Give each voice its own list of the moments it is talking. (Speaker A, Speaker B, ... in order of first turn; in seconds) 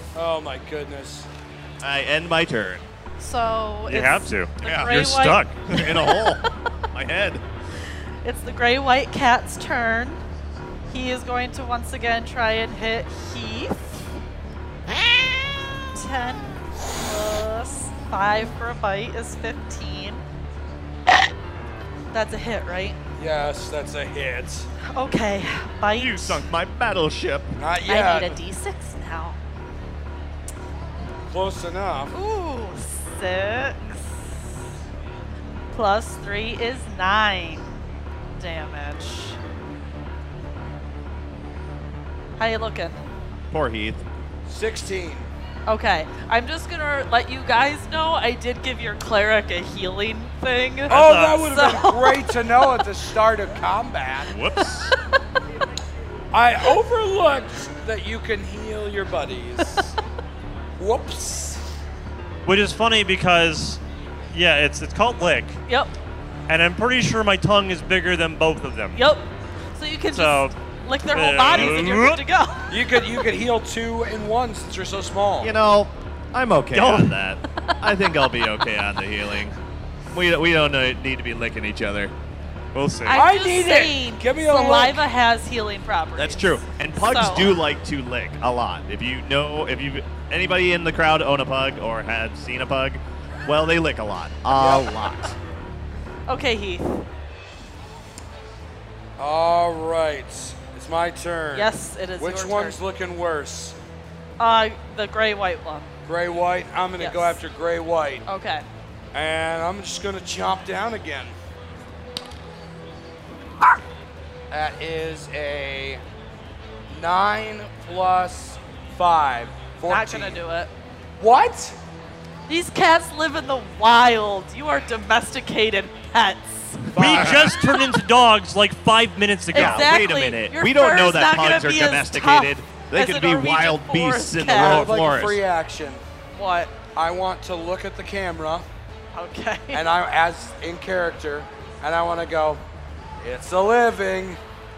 Speaker A: 0.1-1.3, 23.2-24.7, 27.6-28.4, 31.3-32.1, 44.5-45.3, 50.9-54.3, 56.3-59.9, 60.8-61.6, 72.7-75.5, 83.1-85.0, 94.5-95.1, 99.2-103.8, 106.1-108.3, 109.1-111.3, 114.5-116.0, 116.9-120.4, 121.2-121.8, 127.0-127.4, 134.5-136.0, 136.9-138.7, 139.7-142.6, 143.2-144.4
Speaker B: 1.8-2.9, 4.6-5.0, 5.7-7.4, 25.9-27.6, 43.5-44.0, 54.3-54.9, 75.4-79.6, 80.1-82.1, 86.2-95.4, 127.0-127.6, 129.5-135.4
Speaker C: 3.2-6.4, 8.2-10.2, 10.9-14.0, 15.9-20.2, 22.1-23.0, 24.9-26.4, 27.9-29.4, 32.1-34.3, 35.7-37.7, 38.4-39.4, 42.4-43.0, 45.7-52.2, 65.7-65.9, 68.9-69.2, 69.8-72.7, 83.1-87.6, 96.3-97.0, 101.5-102.8, 104.4-105.9, 107.0-107.4, 108.3-108.6, 119.9-120.7, 122.5-127.3, 129.5-134.9, 136.3-136.7, 139.1-139.8
Speaker D: 3.9-5.6, 50.9-51.6, 62.4-63.8, 64.3-65.6, 66.5-69.0, 70.1-70.5, 71.1-72.2, 76.7-77.1, 82.7-83.2, 126.9-129.9